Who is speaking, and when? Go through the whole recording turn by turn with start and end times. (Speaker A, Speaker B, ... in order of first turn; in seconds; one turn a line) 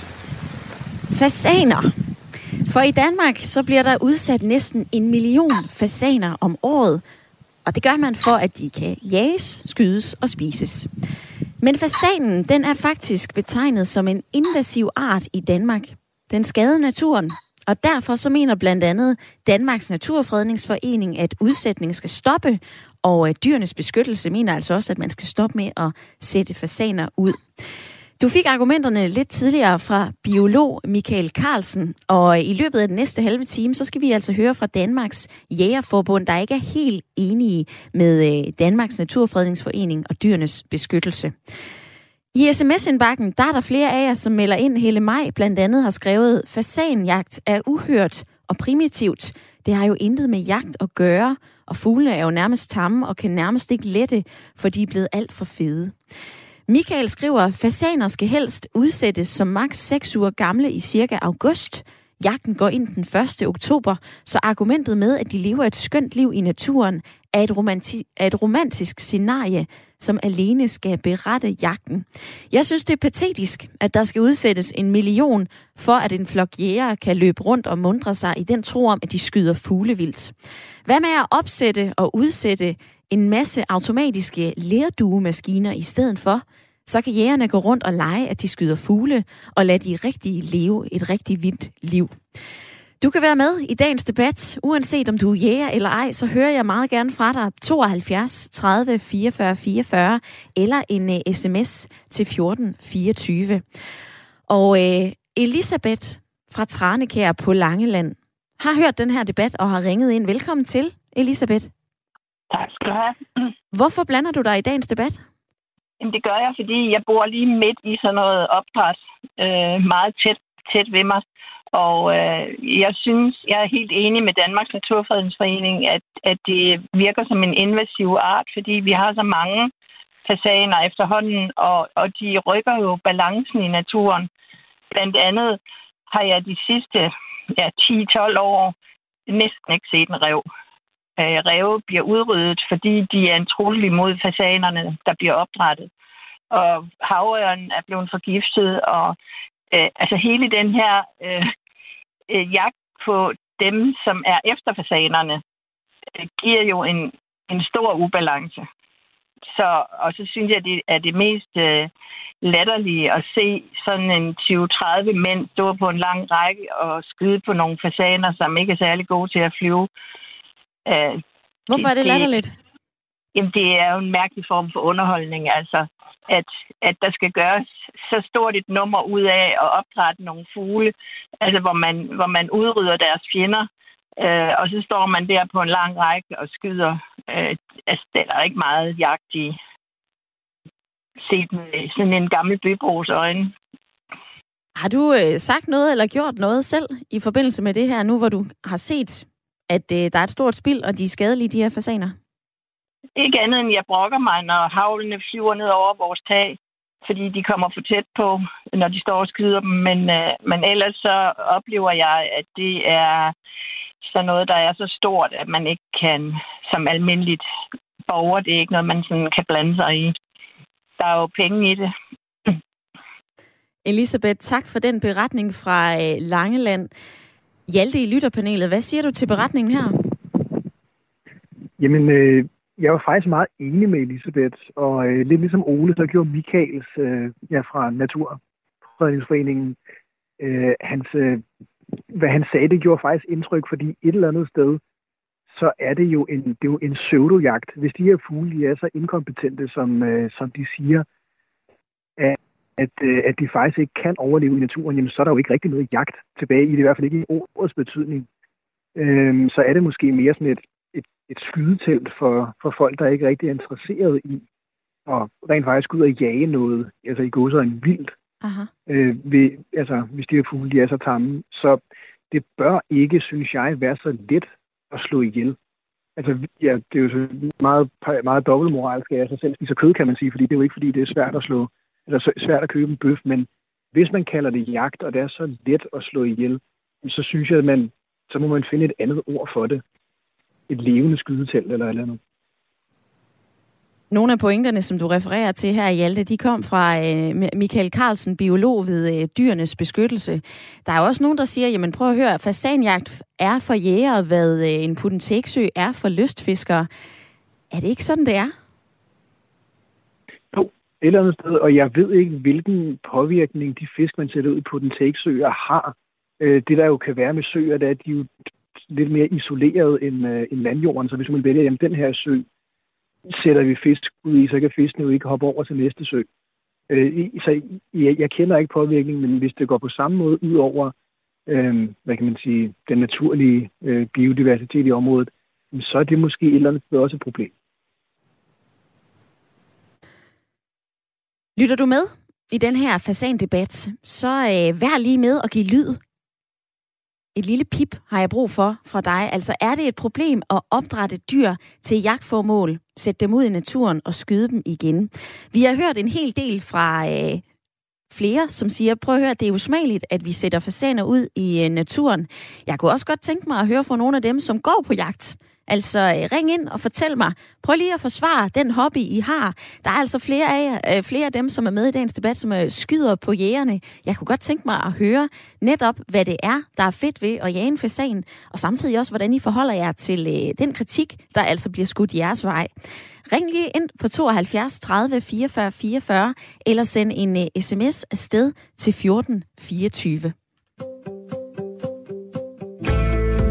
Speaker A: 1.1-1.9
Speaker A: 2.7-7.0
Speaker A: 7.7-10.9
Speaker A: 11.6-27.4
Speaker A: 28.2-41.3
Speaker A: 42.3-56.0
Speaker A: 56.7-80.3
Speaker A: 80.8-92.2
Speaker A: 93.0-103.6
Speaker A: 104.5-111.7
Speaker B: 112.5-113.2
Speaker A: 113.7-115.2
Speaker B: 116.0-129.7
Speaker B: 130.2-134.3
Speaker B: 134.9-138.7
Speaker B: 139.3-140.5
Speaker B: 141.2-145.9
Speaker B: 146.5-149.2
Speaker B: 149.7-151.5
Speaker B: 152.3-155.4
Speaker B: 156.2-158.6
Speaker B: 159.5-161.9
Speaker B: 162.4-169.9
Speaker B: 170.8-171.2
Speaker A: 171.7-172.5
Speaker B: 171.8-172.3
Speaker B: 173.3-189.6
Speaker B: 191.2-193.5
Speaker A: 194.8-202.2
Speaker B: 203.2-213.3
Speaker B: 214.0-217.4
Speaker B: 218.1-220.1
Speaker B: 221.0-221.9
Speaker A: 223.8-226.9
Speaker A: 227.7-230.0
Speaker C: 231.8-239.8
Speaker C: 240.4-241.4
Speaker C: 242.1-244.8
Speaker C: 245.5-251.1
Speaker C: 252.2-258.3
Speaker C: 258.9-264.4
Speaker C: 265.1-268.1
Speaker A: 268.4-268.7
Speaker C: 268.9-275.6
Speaker C: 276.1-289.8
Speaker C: 290.7-292.2
Speaker A: 294.1-306.9
Speaker A: 307.7-308.5
Speaker C: 310.5-322.4
Speaker C: 323.3-326.3
Speaker C: 326.9-330.9
Speaker C: 331.5-337.5
Speaker A: 341.6-346.0
Speaker A: 347.3-357.4
Speaker A: 358.1-382.7
Speaker A: 383.3-390.3